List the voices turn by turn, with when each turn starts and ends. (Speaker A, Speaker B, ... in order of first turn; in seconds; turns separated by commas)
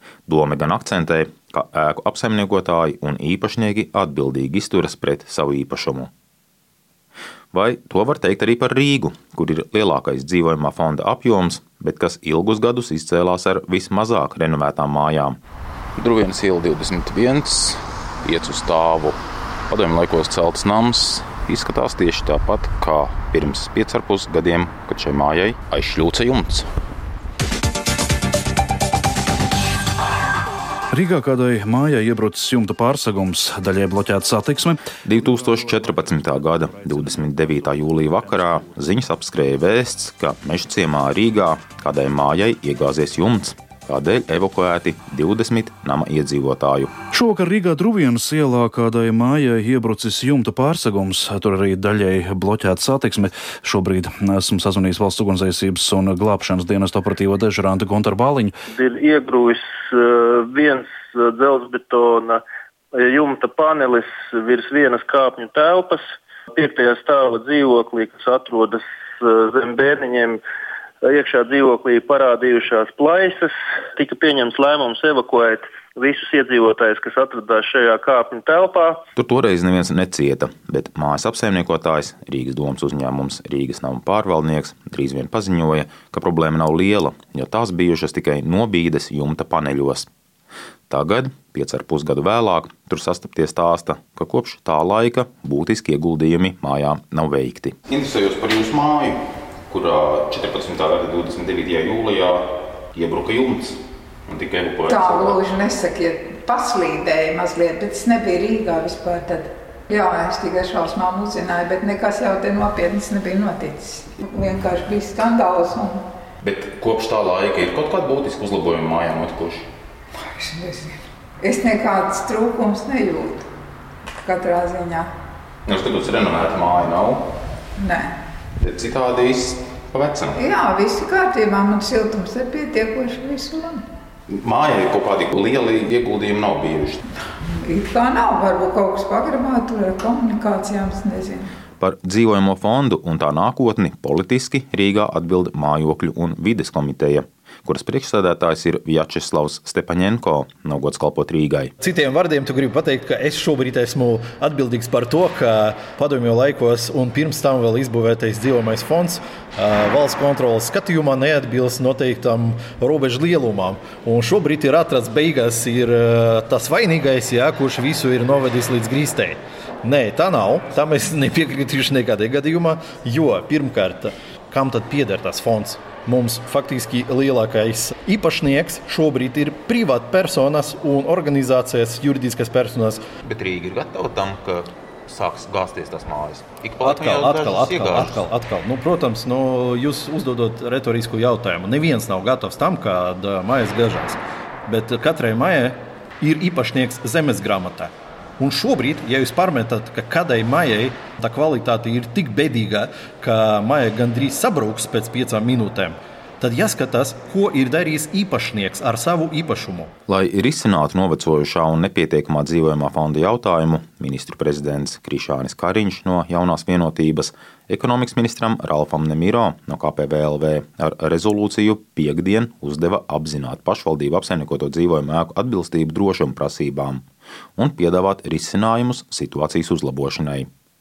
Speaker A: 0.3-6.1, Speaker A: 7.5-15.4, Speaker A: 16.0-19.2, Speaker A: 19.7-26.7, Speaker B: 30.9-38.5, Speaker A: 35.0-46.9, Speaker B: 47.1-58.5, Speaker C: 58.7-70.4, Speaker C: 71.0-79.0, Speaker A: 79.2-90.1, Speaker A: 90.9-99.2, Speaker A: 99.7-102.4, Speaker A: 102.9-103.8, Speaker A: 104.3-105.4, Speaker D: 104.8-116.0, Speaker A: 116.4-119.6, Speaker D: 120.2-123.5, Speaker D: 124.2-125.1, Speaker A: 125.7-127.2, Speaker D: 127.8-128.1, Speaker A: 128.6-130.4, Speaker D: 130.3-133.8, Speaker A: 134.3-137.0, Speaker D: 137.4-141.5, Speaker A: 141.8-151.7, Speaker E: 151.8-183.0, Speaker A: 183.2-188.2, Speaker E: 186.8-209.9, Speaker A: 210.1-227.0, Speaker A: 227.6-230.5